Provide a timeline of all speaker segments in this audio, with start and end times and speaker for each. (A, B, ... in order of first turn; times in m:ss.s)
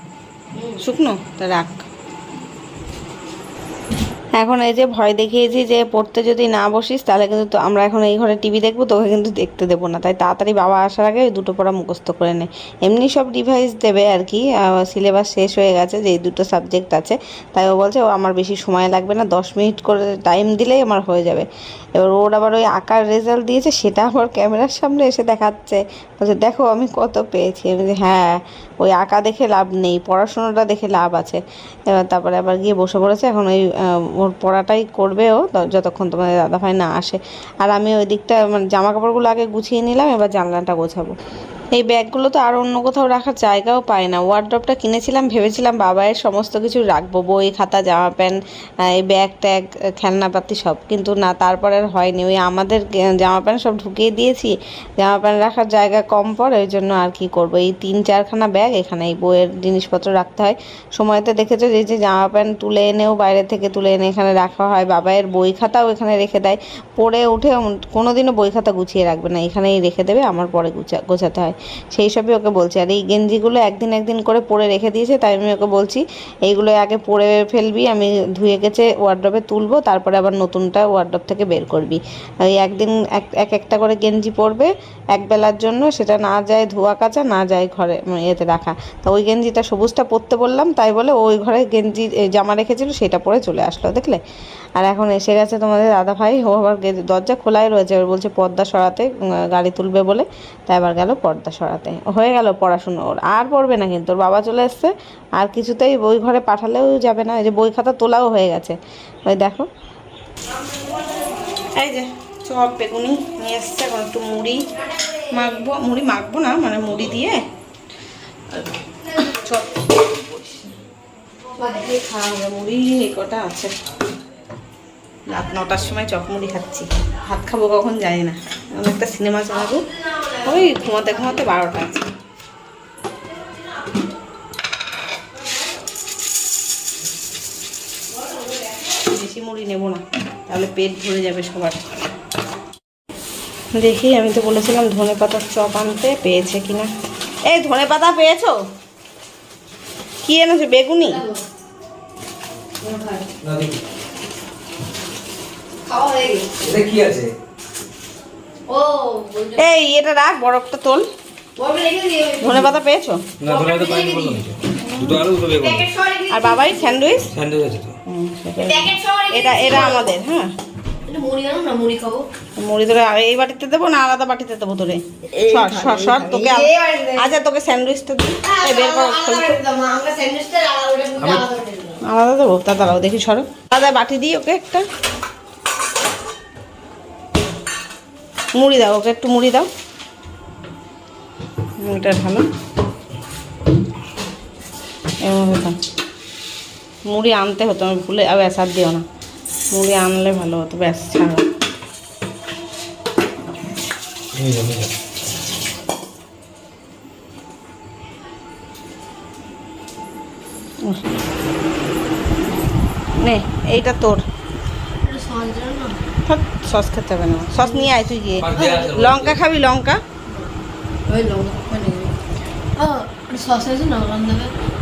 0:00.5-0:00.8 A
0:00.8-0:01.9 B
0:04.4-0:31.4 B
0:31.9-0:41.1 B
0:41.8-1:34.2 B
1:34.8-1:48.8 B
1:49.3-1:49.7 B
1:51.8-1:54.6 B
1:55.2-1:57.4 B
1:58.5-2:00.6 B
2:01.6-2:03.8 B
2:05.3-2:12.1 B
2:18.7-2:21.9 B
2:23.7-2:26.9 B
2:27.5-2:28.6 B
2:30.2-2:31.2 B
2:31.1-2:31.4 A
2:32.8-2:33.3 A
2:33.4-2:33.8 C
2:35.8-2:36.5 A
2:36.6-2:37.3 C
2:38.7-2:39.6 A
2:39.5-2:41.0 B
2:41.6-2:42.7 A
2:42.4-2:43.2 B
2:43.4-2:45.9 C
2:43.4-2:44.4 A
2:44.8-2:45.3 B
2:45.5-2:47.1 A
2:46.3-2:47.3 B
2:47.3-2:48.0 C
2:48.1-2:50.5 B
2:48.6-2:50.1 A
2:51.1-2:52.3 A
2:52.6-2:59.6 B
2:55.4-2:57.3 A
2:58.5-3:02.0 A
3:02.0-3:04.9 B
3:08.5-3:09.7 B
3:11.8-3:12.5 B
3:15.2-3:15.8 B
3:17.1-3:19.0 B
3:19.7-3:21.4 B
3:24.3-3:24.9 C
3:33.2-3:34.2 B
3:35.0-3:36.0 A
3:36.3-3:40.0 B
3:37.6-3:37.9 A
3:38.4-3:39.4 C
3:38.6-3:38.9 A
3:41.1-3:42.1 A
3:42.8-3:44.5 A